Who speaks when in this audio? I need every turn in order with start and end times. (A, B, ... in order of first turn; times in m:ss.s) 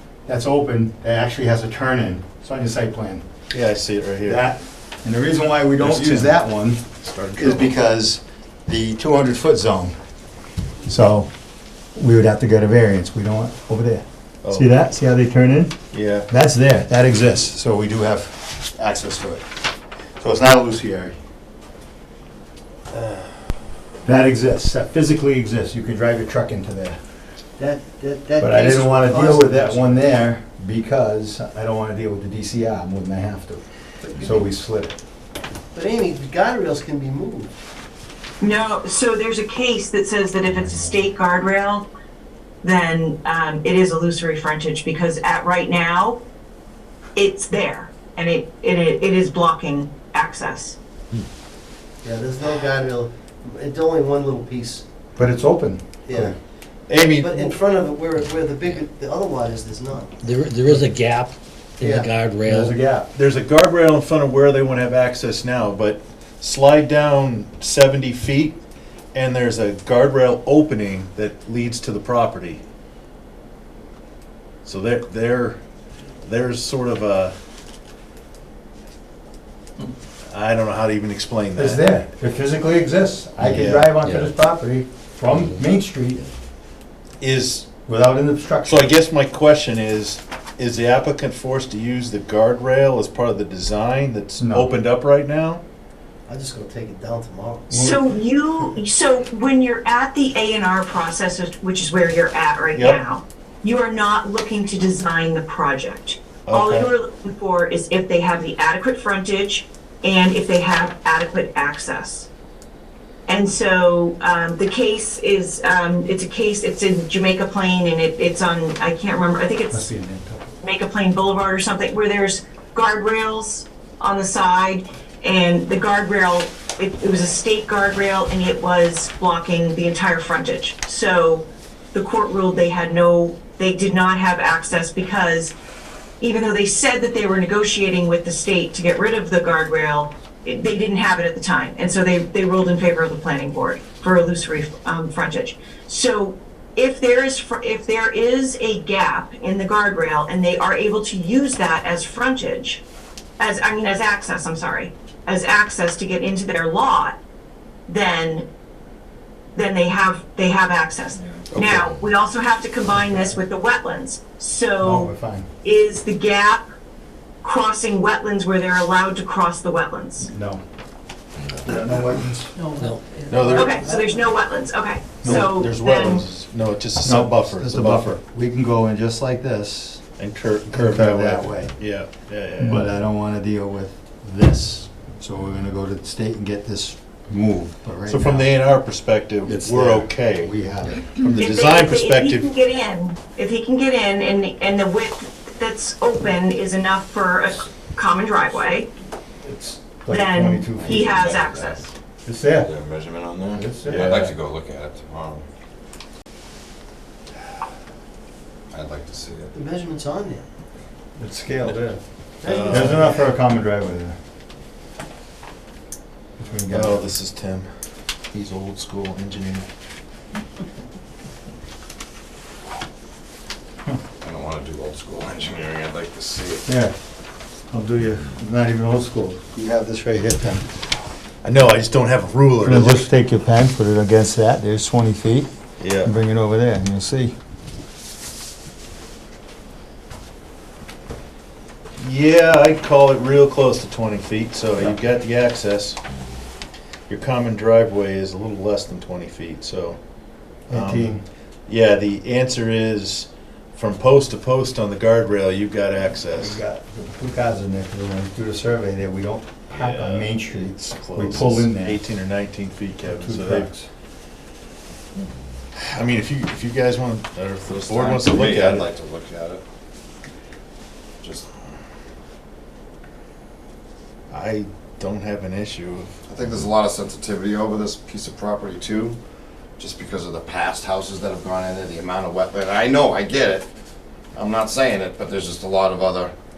0:00.3-0:03.2 A
0:03.5-0:04.5 B
0:04.2-0:06.8 A
0:05.8-0:06.4 B
0:07.0-0:07.7 B
0:07.4-0:10.0 A
0:10.8-0:11.3 A
0:12.0-0:15.8 A
0:14.4-0:14.7 B
0:15.9-0:16.3 B
0:16.3-0:19.4 A
0:20.2-0:21.2 A
0:24.0-0:27.0 A
0:27.6-0:30.0 C
0:28.4-0:33.6 A
0:34.0-0:34.4 C
0:34.1-0:35.0 A
0:35.7-0:37.5 C
0:38.4-0:41.9 D
0:42.6-0:46.2 D
0:47.2-0:50.8 D
0:52.0-0:54.8 C
0:55.2-0:56.3 A
0:56.0-0:56.4 C
0:56.9-0:57.6 B
0:57.1-1:00.2 C
1:00.2-1:02.8 E
1:01.8-1:02.1 C
1:02.4-1:03.1 A
1:03.1-1:08.6 B
1:09.1-1:12.6 B
1:14.6-1:15.6 B
1:16.2-1:17.3 B
1:20.3-1:21.9 B
1:21.5-1:26.2 A
1:23.4-1:24.0 B
1:24.0-1:24.3 E
1:25.3-1:25.6 E
1:27.2-1:27.7 B
1:27.8-1:28.9 A
1:28.6-1:35.6 B
1:34.4-1:34.8 A
1:36.3-1:37.7 C
1:37.7-1:38.0 A
1:37.7-1:52.3 D
1:42.7-1:43.0 B
1:46.5-1:46.9 B
1:53.3-1:59.8 D
1:59.7-2:00.5 A
2:00.6-2:15.5 D
2:16.2-2:32.8 D
2:33.4-2:37.2 D
2:37.9-2:38.4 D
2:39.5-2:45.1 D
2:41.6-2:41.9 F
2:44.8-2:45.5 A
2:45.6-2:46.6 D
2:47.4-2:50.3 D
2:50.3-2:50.6 A
2:51.5-2:52.6 A
2:52.5-2:54.4 C
2:53.3-2:53.8 B
2:53.5-2:56.2 D
2:55.2-2:58.2 B
2:57.0-3:00.0 A
3:00.2-3:03.0 B
3:00.7-3:01.8 A
3:02.6-3:08.5 A
3:08.1-3:10.5 B
3:09.4-3:11.1 A
3:11.1-3:12.5 B
3:11.3-3:18.9 D
3:19.4-3:21.3 A
3:20.1-3:21.9 D
3:20.8-3:21.8 F
3:22.2-3:22.7 A
3:22.6-3:25.4 F
3:23.5-3:24.1 A
3:23.9-3:24.4 B
3:28.7-3:29.5 F
3:29.5-3:30.4 C
3:31.2-3:32.0 A
3:32.4-3:33.2 C
3:32.4-3:33.1 B
3:32.7-3:34.2 A
3:36.4-3:37.1 A
3:36.7-3:37.7 B
3:38.3-3:39.7 B
3:44.2-3:46.6 F
3:46.7-3:46.9 A
3:47.7-3:50.7 A
3:51.4-3:53.1 B
3:52.6-3:55.5 A
3:55.8-3:56.1 B
3:56.0-3:57.3 A
4:02.0-4:06.0 B
4:07.1-4:10.0 B
4:10.7-4:11.2 B
4:10.7-4:11.2 A
4:11.7-4:16.6 B
4:16.4-4:22.1 A
4:19.7-4:23.7 B
4:23.1-4:23.9 A
4:25.7-4:28.9 B
4:27.8-4:29.6 F
4:31.2-4:31.5 F
4:34.3-4:36.1 B
4:36.3-4:39.2 F
4:39.8-4:43.7 F
4:44.3-4:46.3 F